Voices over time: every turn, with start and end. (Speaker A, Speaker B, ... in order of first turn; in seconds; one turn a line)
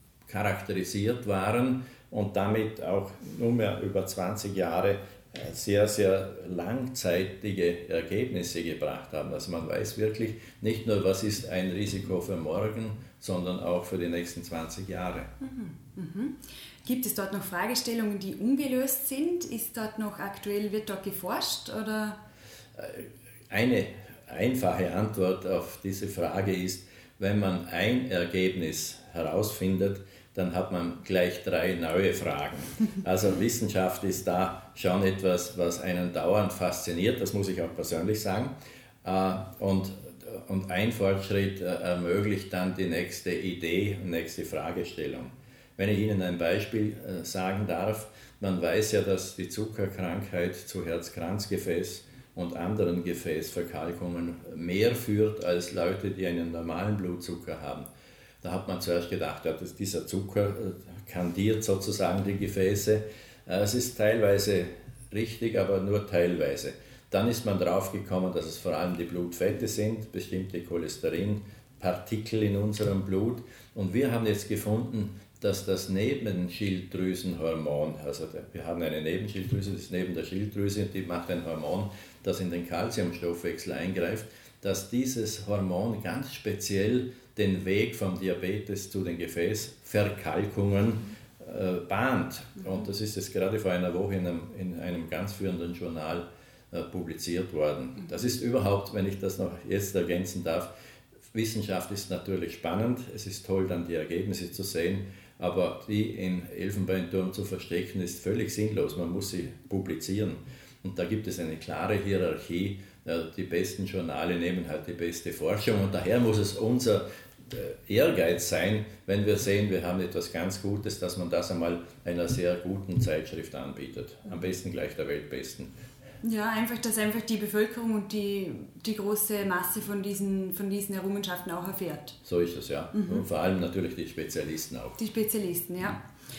Speaker A: 0.2-15.3
Speaker B: 15.4-22.2
Speaker A: 22.7-57.9
Speaker A: 58.4-100.7
Speaker A: 101.3-125.7
Speaker B: 126.2-132.2
Speaker A: 132.2-135.0
Speaker B: 132.9-133.2
Speaker B: 135.0-136.0